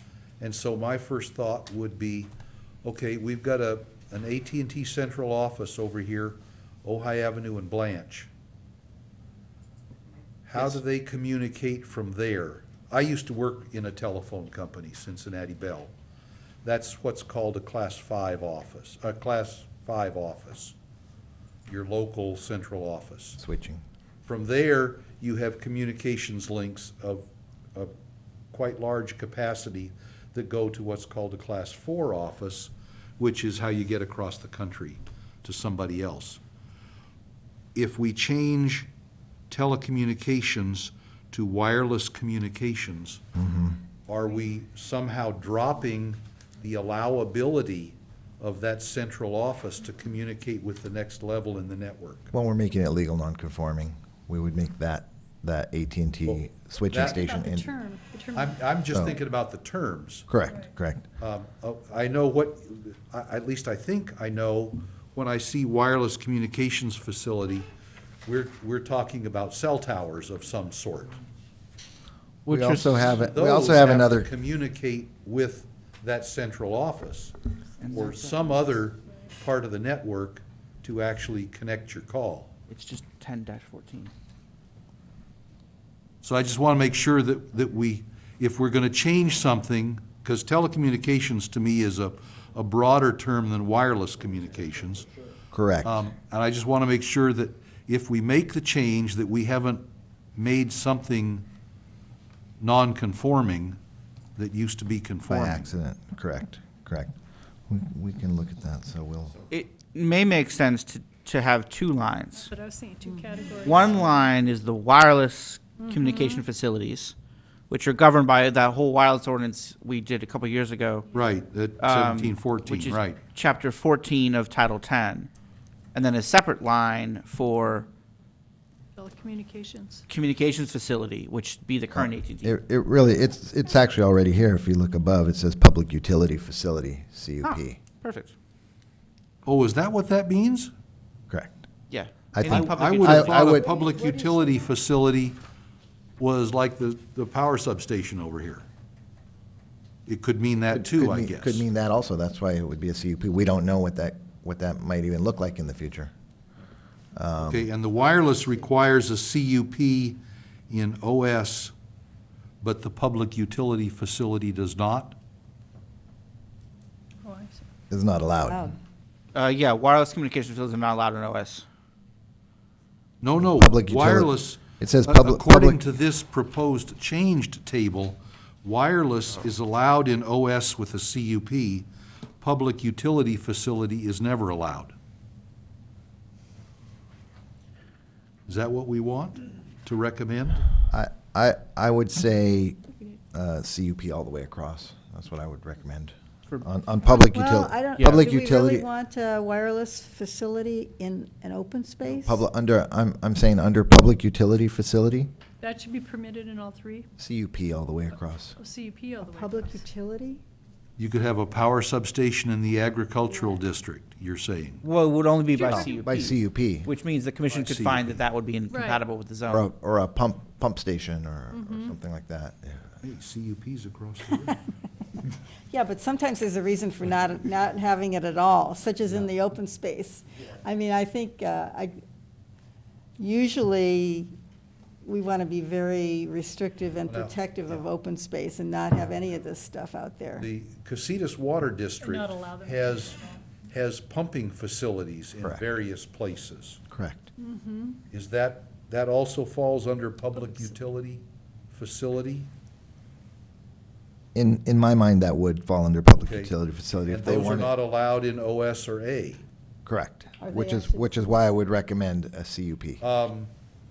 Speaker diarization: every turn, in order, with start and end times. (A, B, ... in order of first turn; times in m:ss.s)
0:00.4-0:02.3 A
0:02.8-0:08.3 A
0:10.5-0:15.9 A
0:16.6-0:20.8 A
0:21.7-0:23.4 A
0:23.4-0:23.8 B
0:24.2-0:27.9 A
0:28.5-0:36.4 A
0:37.8-0:38.9 A
0:39.5-0:43.2 A
0:43.4-0:43.8 B
0:44.1-0:52.3 A
0:52.3-0:57.7 B
0:56.3-0:57.2 A
0:57.1-0:59.1 C
0:58.4-1:00.3 A
1:00.3-1:01.1 B
1:01.2-1:07.7 A
1:08.2-1:11.2 A
1:12.5-1:13.1 D
1:12.5-1:14.3 B
1:13.0-1:17.4 A
1:17.8-1:18.4 D
1:17.9-1:22.5 A
1:22.7-1:24.1 D
1:26.2-1:35.1 A
1:35.5-1:36.1 B
1:35.8-1:41.5 A
1:42.6-1:43.8 A
1:44.4-1:45.7 A
1:45.3-1:47.1 B
1:47.7-1:49.4 B
1:49.5-1:52.5 D
1:52.5-1:54.2 C
1:53.6-1:57.2 D
1:55.8-1:56.4 C
1:57.7-2:01.1 D
2:01.1-2:03.2 A
2:01.8-2:05.3 D
2:05.9-2:07.9 D
2:09.0-2:10.0 C
2:10.1-2:12.5 D
2:11.9-2:17.8 B
2:17.4-2:18.3 D
2:19.5-2:20.7 A
2:21.3-2:21.6 B
2:21.9-2:23.6 D
2:22.3-2:23.6 B
2:22.4-2:25.4 A
2:23.3-2:24.7 E
2:26.2-2:28.6 A
2:30.1-2:31.6 A
2:30.7-2:36.1 B
2:37.1-2:37.7 B
2:37.4-2:41.7 A
2:42.6-2:45.2 A
2:47.2-2:47.6 C
2:47.9-2:48.7 B
2:48.5-2:48.8 E
2:49.3-2:51.6 D
2:53.2-3:01.9 A
2:53.4-2:55.8 B
3:02.4-3:04.9 A
3:08.5-3:10.7 A
3:10.9-3:18.9 B
3:17.1-3:22.4 E
3:18.0-3:18.2 D
3:22.1-3:25.3 B
3:25.6-3:27.1 C
3:27.2-3:28.6 B
3:28.6-3:29.8 C
3:29.2-3:30.4 E
3:31.0-3:34.8 A
3:34.8-3:39.6 D
3:35.5-3:36.0 C
3:35.7-3:36.9 B
3:37.5-3:38.2 A
3:38.7-3:39.0 C
3:39.5-3:43.0 B
3:41.5-3:42.0 C
3:43.0-3:44.6 A
3:45.7-3:52.0 E
3:53.2-3:54.3 E
3:55.0-4:00.5 E
3:57.1-3:57.9 A
4:00.4-4:06.8 A
4:02.0-4:03.5 C
4:06.9-4:07.3 B
4:07.4-4:08.0 C
4:08.1-4:12.5 A
4:14.4-4:17.8 B
4:16.2-4:16.5 A
4:17.1-4:19.4 A
4:19.9-4:23.0 B
4:20.4-4:21.1 E
4:23.0-4:23.5 A